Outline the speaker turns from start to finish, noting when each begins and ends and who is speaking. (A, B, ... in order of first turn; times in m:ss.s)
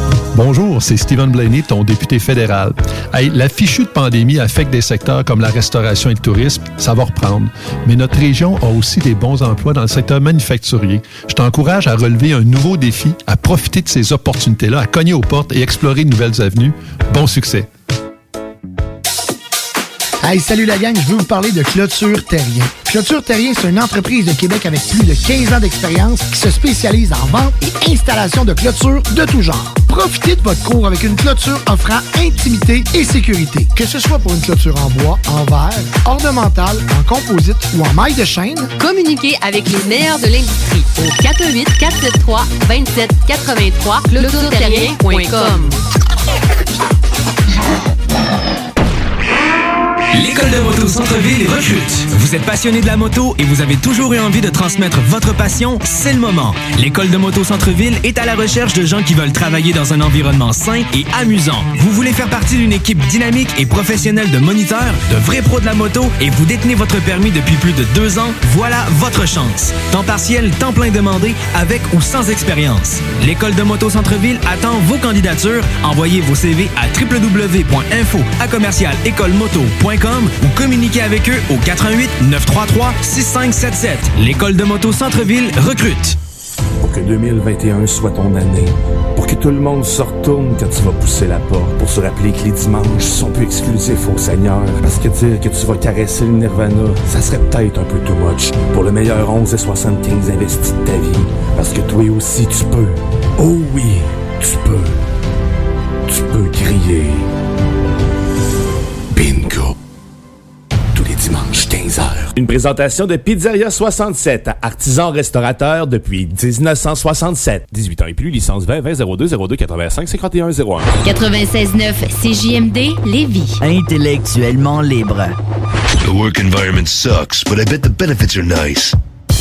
0:00.3-0:17.7 A
0:20.2-0:38.7 B
0:38.8-0:45.8 C
0:50.1-1:26.2 D
1:26.8-1:44.9 E
1:46.1-1:47.2 E
1:49.2-1:49.7 F
1:51.0-2:00.9 F
2:01.0-2:03.6 C
2:06.0-2:09.0 G